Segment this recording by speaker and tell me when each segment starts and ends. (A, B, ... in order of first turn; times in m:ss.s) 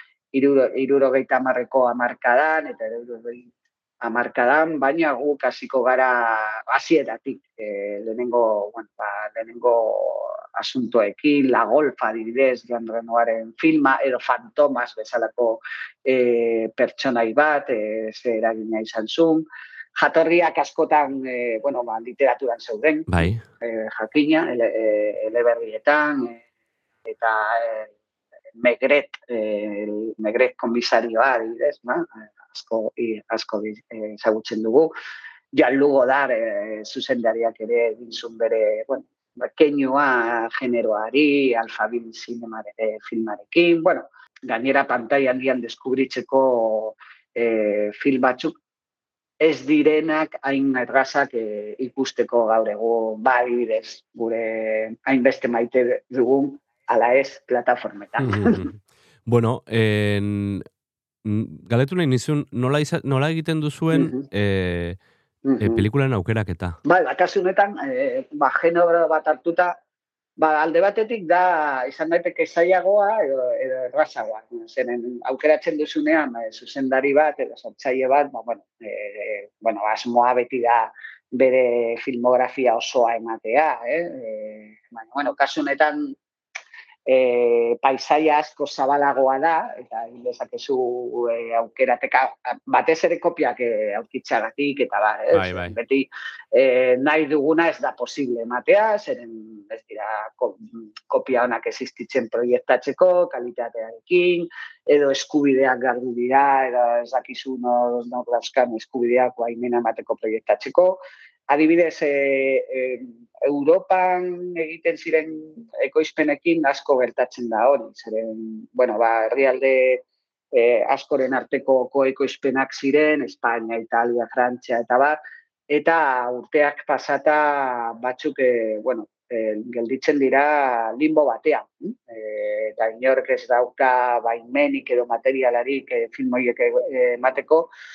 0:00.3-0:03.5 A
0:04.0-0:19.4 A
0:20.0-0:26.4 A
0:23.1-0:23.5 B
0:27.1-0:27.9 A
0:28.6-0:34.9 A
0:35.5-0:48.5 A
0:49.4-0:58.6 A
0:58.2-1:00.6 B
1:01.2-1:05.0 B
1:03.9-1:04.3 A
1:05.5-1:05.8 A
1:05.6-1:06.8 B
1:06.8-1:09.8 A
1:10.4-1:26.1 A
1:27.1-2:05.2 A
1:35.3-1:35.8 B
2:05.7-2:17.7 A